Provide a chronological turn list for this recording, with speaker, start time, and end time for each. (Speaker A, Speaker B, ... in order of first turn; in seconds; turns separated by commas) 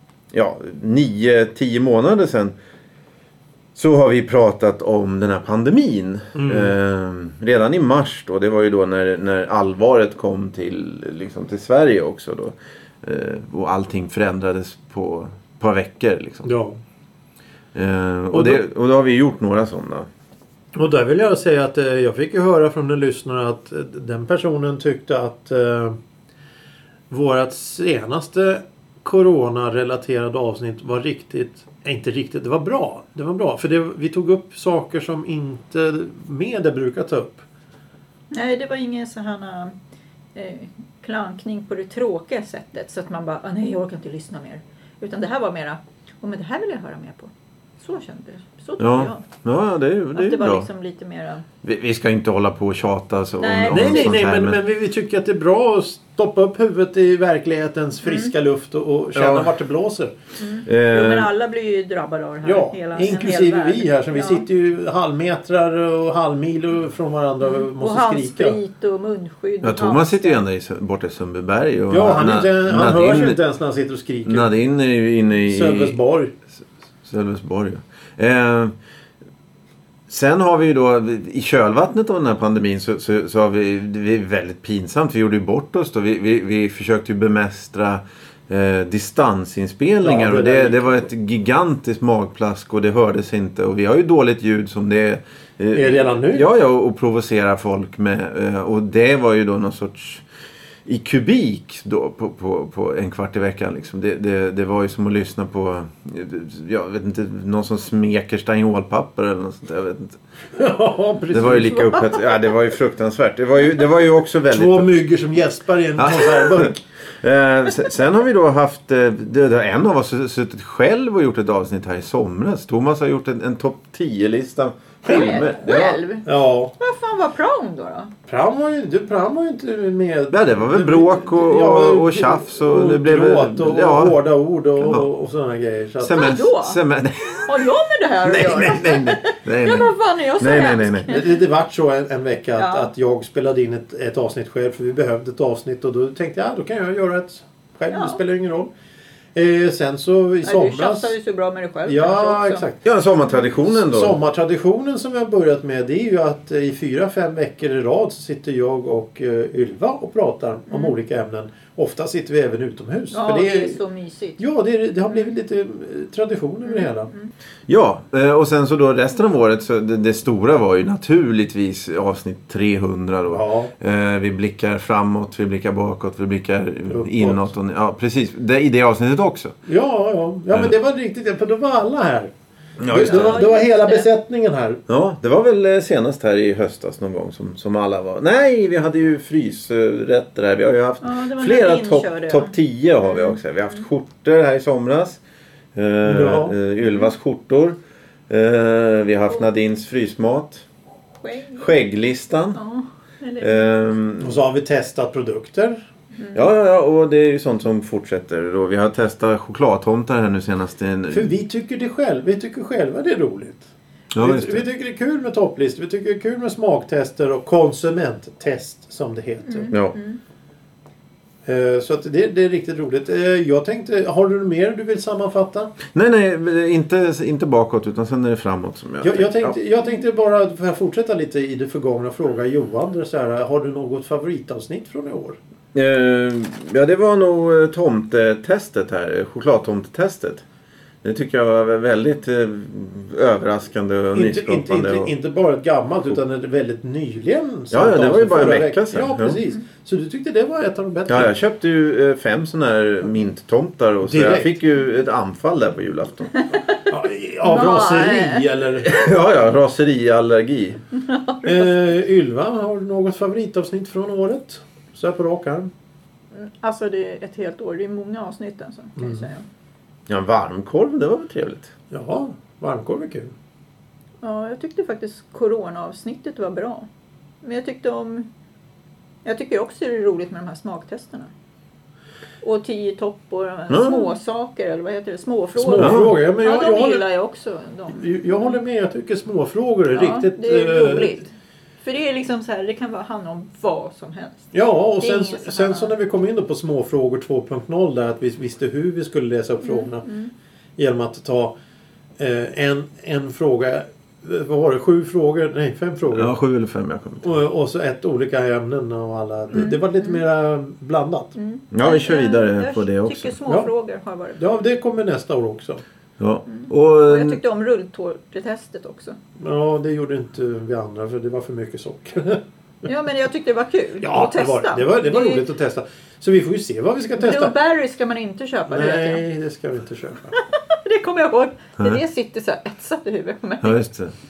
Speaker A: 0.3-2.5, Speaker A: 3.8-16.5, Speaker B: 6.3-6.8, Speaker B: 16.4-16.8, Speaker A: 17.7-20.1, Speaker B: 18.3-18.6, Speaker B: 20.8-26.0, Speaker B: 27.1-37.4, Speaker C: 38.3-39.8, Speaker C: 40.4-49.2, Speaker A: 48.8-50.7, Speaker C: 50.1-51.5, Speaker A: 51.6-54.6, Speaker C: 53.4-54.2, Speaker B: 53.7-60.1, Speaker C: 58.0-58.3, Speaker A: 59.1-59.5, Speaker C: 60.4-64.5, Speaker A: 60.7-61.3, Speaker B: 62.4-68.6, Speaker C: 67.4-70.4, Speaker A: 69.6-73.4, Speaker B: 71.9-74.5, Speaker A: 74.3-76.0, Speaker B: 75.5-76.3, Speaker A: 77.0-78.7, Speaker A: 80.1-100.2, Speaker B: 90.0-91.0, Speaker B: 95.7-96.5, Speaker A: 100.9-110.2, Speaker B: 110.6-112.1, Speaker A: 111.3-115.0, Speaker B: 114.5-116.8, Speaker A: 116.0-126.0, Speaker C: 125.1-126.3, Speaker B: 125.1-126.7, Speaker C: 126.8-128.1, Speaker B: 128.3-136.3, Speaker A: 130.3-134.2, Speaker A: 134.8-135.1, Speaker A: 136.0-137.5, Speaker C: 136.1-136.8, Speaker C: 137.4-141.4, Speaker A: 138.2-141.2, Speaker B: 141.1-148.7, Speaker C: 142.6-142.9, Speaker C: 147.9-148.2, Speaker B: 149.3-151.1, Speaker C: 150.4-152.7, Speaker B: 151.9-152.8, Speaker A: 152.8-154.2, Speaker B: 153.6-163.8, Speaker C: 163.1-164.4, Speaker B: 164.4-167.1, Speaker C: 166.7-167.3, Speaker A: 167.7-179.6, Speaker B: 173.3-173.7, Speaker B: 176.9-177.5, Speaker B: 179.7-182.3, Speaker A: 182.8-183.4, Speaker B: 182.8-184.8, Speaker C: 182.9-184.1, Speaker A: 184.9-195.2, Speaker C: 191.0-193.4, Speaker A: 195.8-197.8, Speaker B: 196.0-196.6, Speaker A: 198.3-200.7, Speaker C: 201.2-201.7, Speaker A: 201.6-202.6, Speaker C: 202.6-203.7, Speaker A: 203.4-204.4, Speaker B: 204.2-205.8, Speaker C: 206.2-206.4, Speaker A: 206.3-211.3, Speaker B: 211.1-213.7, Speaker A: 214.1-214.7, Speaker B: 214.2-219.7, Speaker C: 219.5-220.2, Speaker B: 221.5-225.8, Speaker A: 225.9-229.6, Speaker B: 229.0-235.4, Speaker A: 235.7-240.4, Speaker A: 241.0-245.1, Speaker B: 244.1-251.3, Speaker A: 247.7-249.4, Speaker A: 251.1-256.3, Speaker B: 254.0-254.5, Speaker C: 256.4-256.7, Speaker B: 256.9-259.0, Speaker C: 257.4-258.5, Speaker A: 258.9-260.8, Speaker C: 260.9-261.8, Speaker B: 261.4-265.7, Speaker C: 266.3-269.5, Speaker B: 269.0-269.3, Speaker A: 270.1-271.7, Speaker B: 271.9-273.3, Speaker C: 274.2-276.9, Speaker C: 277.4-278.3, Speaker C: 279.2-281.3, Speaker C: 282.4-288.6, Speaker A: 283.7-284.1, Speaker B: 285.6-287.1, Speaker A: 285.8-286.1, Speaker B: 287.9-291.2, Speaker C: 289.9-291.3, Speaker C: 291.8-295.9, Speaker B: 294.5-300.1, Speaker C: 299.6-300.3, Speaker B: 300.8-301.5, Speaker B: 302.2-306.3, Speaker A: 306.1-307.3, Speaker B: 307.2-311.3, Speaker C: 309.5-310.2, Speaker C: 311.4-314.4, Speaker A: 311.7-313.3, Speaker B: 314.4-315.8, Speaker A: 316.2-317.4, Speaker C: 316.5-319.2, Speaker B: 319.4-322.4, Speaker C: 322.9-325.4, Speaker B: 324.0-327.6, Speaker C: 327.2-329.2, Speaker B: 328.7-330.3, Speaker C: 330.4-333.8, Speaker A: 333.6-334.1